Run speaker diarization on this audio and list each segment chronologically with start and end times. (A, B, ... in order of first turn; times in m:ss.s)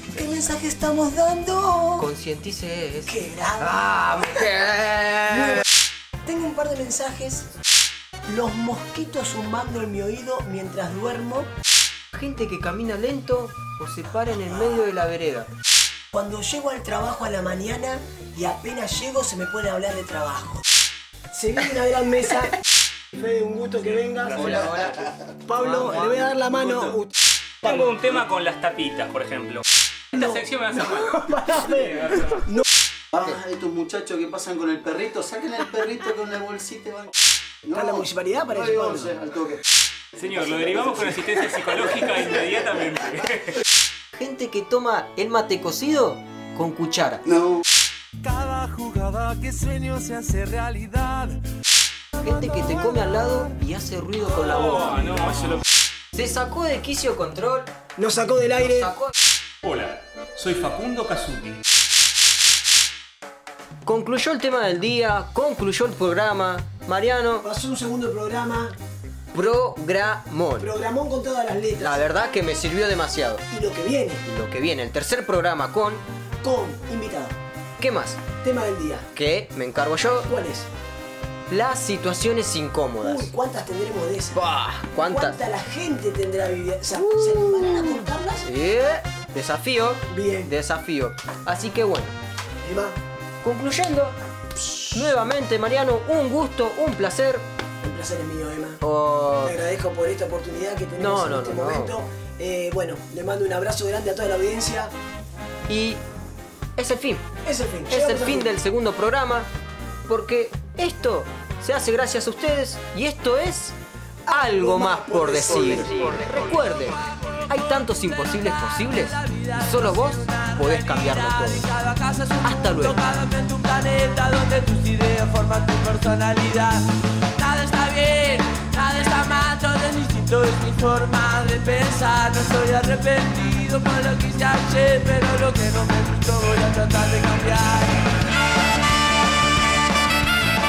0:00.1-0:02.1 A
0:02.0-0:05.6 B
0:03.0-0:04.6 A
0:05.3-0:05.6 A
0:06.2-0:07.5 A
0:08.3-0:11.5 A
0:12.1-0:15.5 B
0:16.1-0:20.7 A
0:21.3-0:22.6 A
0:23.1-0:24.8 A
0:24.2-0:24.7 C
0:24.4-0:26.2 B
0:24.6-0:25.1 D
0:25.5-0:27.9 A
0:25.7-0:26.9 D
0:27.6-0:32.4 C
0:30.1-0:32.7 A
0:33.1-0:39.6 D
0:37.7-0:39.2 A
0:40.2-0:43.6 C
0:40.3-0:42.1 D
0:44.1-0:47.2 B
0:47.2-0:47.6 D
0:48.2-0:51.4 E
0:52.2-0:55.3 B
0:54.4-0:55.6 C
0:54.5-0:55.6 E
0:56.1-0:57.7 B
0:58.0-0:59.0 A
0:58.5-0:59.1 B
0:59.6-1:01.6 C
1:03.8-1:07.5 B
1:07.4-1:08.8 A
1:09.3-1:10.7 B
1:10.6-1:12.0 A
1:11.8-1:13.4 B
1:13.5-1:14.2 A
1:14.2-1:16.0 B
1:16.4-1:17.4 A
1:17.8-1:18.2 B
1:18.4-1:19.1 A
1:19.2-1:20.3 B
1:20.1-1:20.7 A
1:21.5-1:23.3 B
1:23.0-1:24.4 A
1:24.3-1:25.4 B
1:25.0-1:28.5 A
1:26.9-1:32.2 B
1:30.1-1:30.5 A
1:32.6-1:33.0 A
1:33.4-1:34.2 B
1:34.8-1:37.4 B
1:37.8-1:38.8 A
1:38.8-1:39.6 B
1:39.4-1:44.9 A
1:41.0-1:42.0 B
1:45.7-1:46.0 B
1:46.8-1:47.3 B
1:47.4-1:48.5 A
1:47.9-1:49.5 B
1:50.1-1:53.8 B
1:54.3-1:56.1 A
1:54.3-2:01.7 B
1:56.0-2:06.8 F
2:02.4-2:03.0 B
2:07.4-2:18.2 F